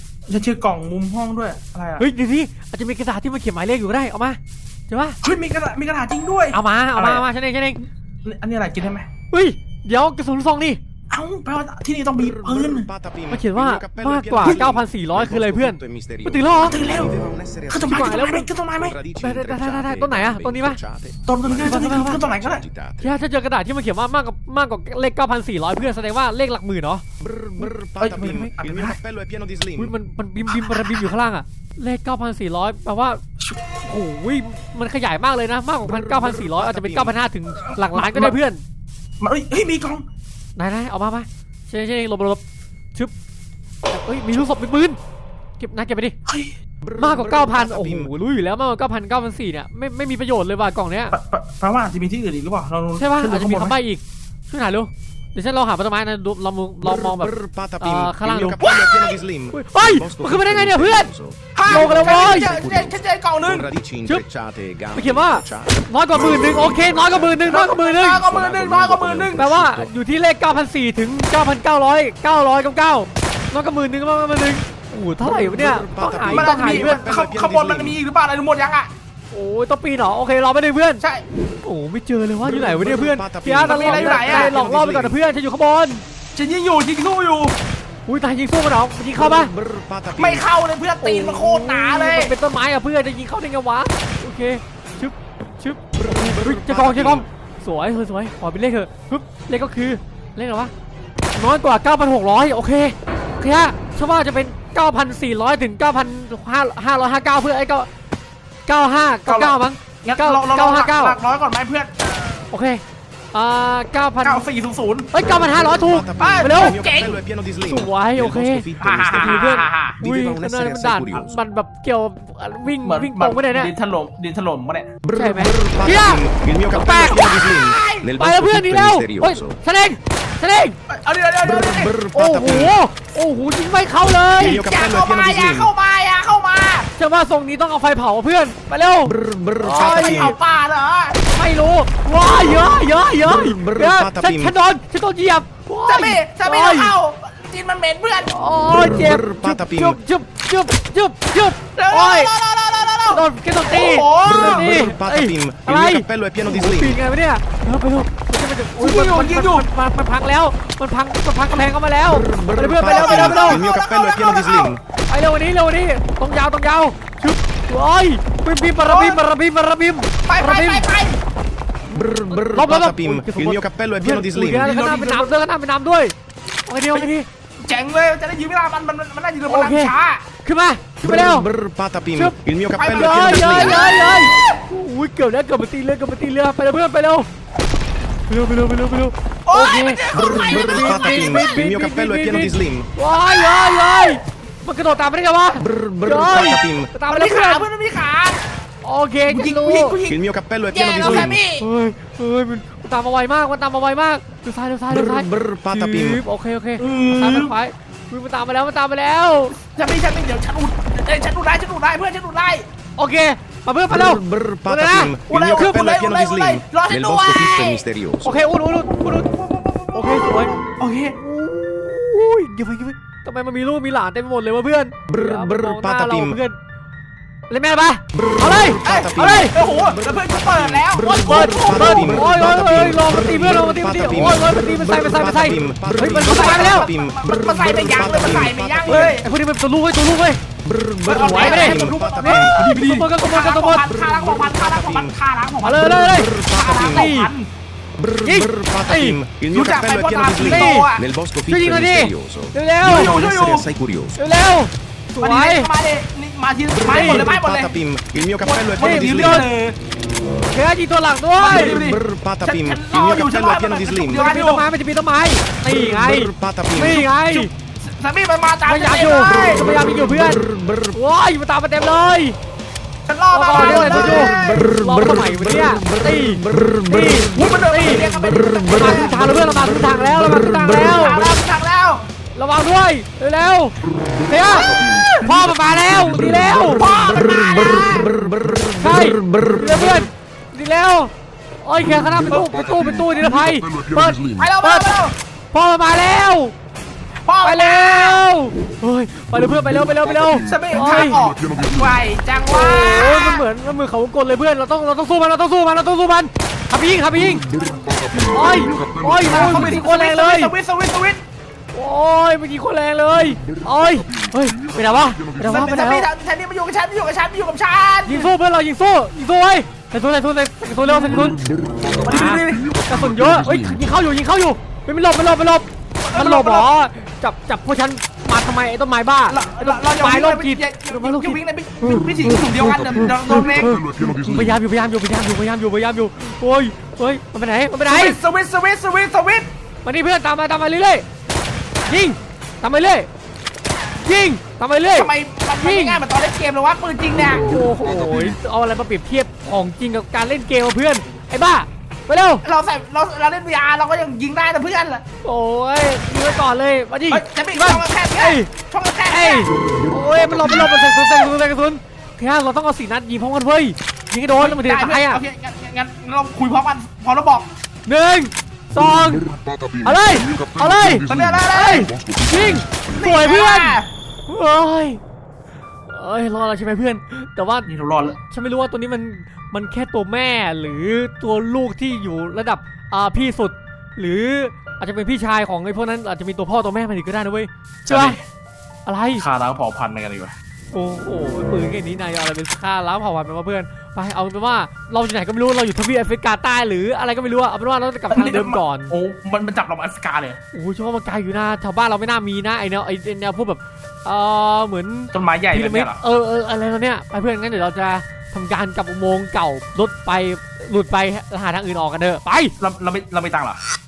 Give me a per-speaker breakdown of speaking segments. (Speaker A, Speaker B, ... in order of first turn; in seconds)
Speaker A: 0.3-2.0, 5.2-7.3, 8.2-9.1, 11.1-12.9, 14.4-14.7, 16.6-17.1, 17.7-19.0, 21.2-22.6, 28.0-29.0, 30.5-30.9, 37.7-38.4, 39.2-40.0, 46.3-46.5, 51.1-53.8, 61.5-63.7, 67.4-69.5, 76.3-78.9, 83.6-84.5, 86.3-87.6, 90.2-92.3, 109.3-112.3, 114.2-115.1, 116.2-117.2, 118.8-120.0, 122.8-125.0, 127.0-128.1, 130.9-132.0, 134.4-136.9, 139.6-141.2, 145.9-148.3, 151.8-154.8, 158.8-159.7, 162.8-164.8, 168.8-169.2, 170.3-171.2, 174.6-175.3, 177.6-180.3, 182.8-184.0, 189.5-191.6, 197.1-198.5, 199.3-200.2, 200.7-201.7, 206.8-207.5, 209.7-212.7, 215.3-217.9, 219.1-221.2, 228.8-232.3, 236.2-239.3, 241.1-247.5, 249.5-251.1, 252.8-253.7, 255.2-259.8, 261.4-264.6, 267.8-269.7, 273.1-274.8, 277.3-279.4, 280.7-282.1, 284.6-285.2, 286.6-288.2, 292.3-292.8, 294.4-295.1, 297.2-298.2, 300.4-303.4, 309.1-311.2, 315.4-318.3, 320.9-321.4, 321.9-322.8, 326.0-326.7, 329.3-333.8, 337.9-339.5, 344.9-347.6, 352.4-355.0, 357.1-359.5, 364.4-367.5, 371.1-371.9, 372.9-373.9, 377.7-378.2, 387.9-388.2, 389.1-390.3, 398.1-400.4, 405.1-406.0, 412.6-413.6
Speaker B: 2.0-4.4, 4.9-5.2, 6.5-7.8, 9.3-10.8, 13.3-16.8, 17.8-18.5, 19.1-20.8, 21.6-22.2, 23.0-27.0, 29.8-33.2, 33.9-38.6, 40.6-42.4, 43.9-45.0, 45.6-46.1, 47.0-51.2, 53.0-61.1, 61.6-62.6, 64.9-68.2, 69.3-77.0, 79.3-81.0, 81.6-86.0, 88.1-89.5, 91.0-100.7, 101.3-107.9, 108.7-111.2, 112.5-114.5, 115.1-116.8, 117.6-123.7, 125.1-127.4, 128.1-130.8, 132.1-134.6, 137.0-140.4, 141.3-146.9, 148.3-152.3, 153.1-163.6, 165.1-170.9, 171.9-176.2, 176.7-177.3, 179.5-181.5, 182.9-187.3, 188.3-197.7, 198.8-200.0, 201.0-209.6, 213.0-215.2, 218.2-219.3, 219.9-220.6, 221.2-226.6, 227.5-229.5, 231.2-236.9, 238.9-240.4, 241.1-243.9, 245.6-247.3, 248.2-249.2, 250.4-250.9, 251.5-253.1, 254.2-255.7, 256.9-257.3, 258.8-259.5, 260.5-261.8, 264.1-267.5, 268.7-272.4, 273.3-278.1, 278.7-281.3, 282.4-286.9, 288.7-295.0, 295.5-296.5, 297.4-301.2, 302.5-307.5, 308.2-310.5, 311.7-316.1, 318.1-338.2, 339.8-341.1, 341.9-343.1, 344.0-346.0, 347.3-352.4, 355.2-358.5, 359.1-365.2, 367.9-375.0, 375.9-377.7, 378.3-388.2, 388.9-389.2, 390.7-398.9, 400.5-412.5
Speaker C: 12.2-18.0, 18.8-23.1, 27.2-29.9, 36.0-37.1, 46.8-48.1, 56.9-63.0, 63.5-67.7, 68.2-69.9, 75.2-78.0, 82.4-85.2, 89.2-90.4, 96.0-97.2, 115.3-119.5, 120.0-121.4, 125.1-129.6, 131.4-132.7, 134.4-135.7, 139.3-140.3, 143.5-144.5, 148.9-150.0, 154.2-157.0, 162.3-164.8, 172.1-174.7, 181.0-183.9, 190.1-192.9, 195.6-196.9, 200.0-201.4, 204.9-206.2, 213.9-218.3, 225.1-226.4, 228.2-239.2, 240.6-242.6, 243.8-245.2, 245.9-247.1, 248.0-254.2, 256.8-259.5, 261.7-264.2, 265.7-267.4